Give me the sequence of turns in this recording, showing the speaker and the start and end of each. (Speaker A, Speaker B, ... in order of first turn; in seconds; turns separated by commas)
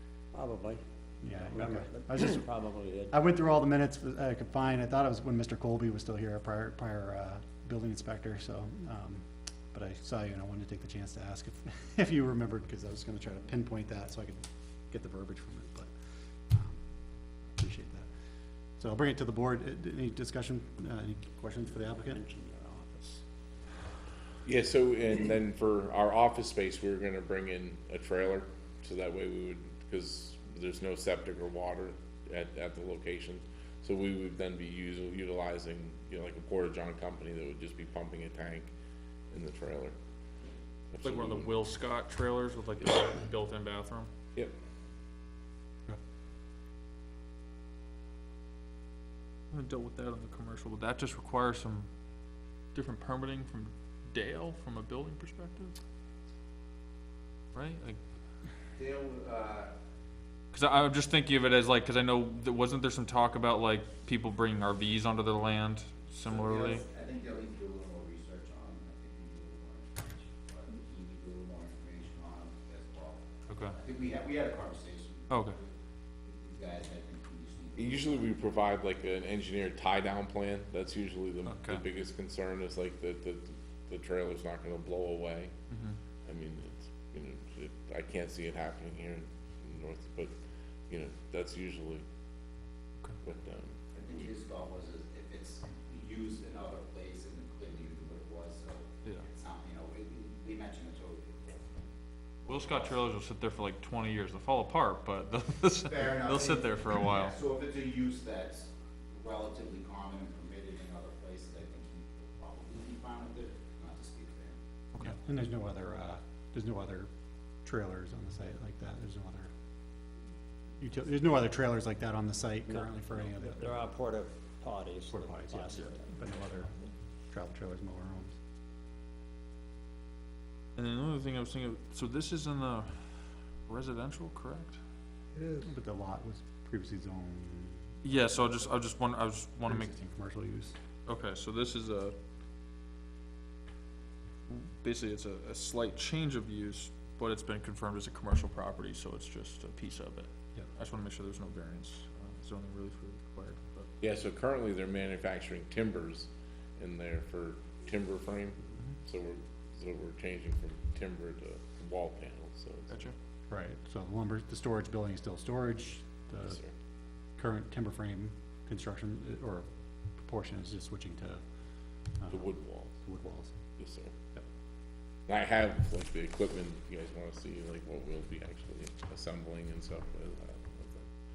Speaker A: 0.3-0.8, Speaker B: 1.2-2.4, Speaker A: 1.4-3.2, Speaker B: 3.1-15.9, Speaker B: 16.5-16.8, Speaker B: 17.6-18.1, Speaker B: 18.8-22.2, Speaker A: 21.9-23.2, Speaker C: 24.4-38.7, Speaker C: 39.3-39.9, Speaker C: 40.9-41.5, Speaker D: 41.1-44.1, Speaker D: 49.5-51.9, Speaker D: 52.7-55.7, Speaker D: 57.5-58.0, Speaker E: 58.8-59.7, Speaker D: 60.5-66.8, Speaker E: 66.2-75.7, Speaker D: 73.5-73.8, Speaker D: 75.3-75.6, Speaker E: 76.2-78.3, Speaker C: 77.8-85.5, Speaker D: 81.5-81.8, Speaker D: 85.7-86.0, Speaker C: 86.3-90.3, Speaker C: 90.9-92.0, Speaker C: 93.2-93.7, Speaker E: 93.9-101.7, Speaker E: 102.4-103.0, Speaker D: 102.5-107.4, Speaker E: 105.7-114.6, Speaker B: 115.0-117.1, Speaker B: 117.6-119.5, Speaker B: 120.8-123.8, Speaker A: 123.4-126.2, Speaker B: 125.1-126.7, Speaker B: 127.3-128.4, Speaker D: 130.8-133.2, Speaker D: 133.7-134.8, Speaker B: 135.6-138.7, Speaker D: 138.0-139.9, Speaker B: 139.7-140.8, Speaker D: 141.1-142.2, Speaker D: 144.5-153.9, Speaker C: 154.0-163.1, Speaker B: 163.5-166.6, Speaker C: 166.4-166.7, Speaker B: 167.4-169.7, Speaker B: 170.2-171.4, Speaker B: 172.2-173.6, Speaker C: 172.3-172.9, Speaker C: 173.8-174.1, Speaker C: 175.3-181.1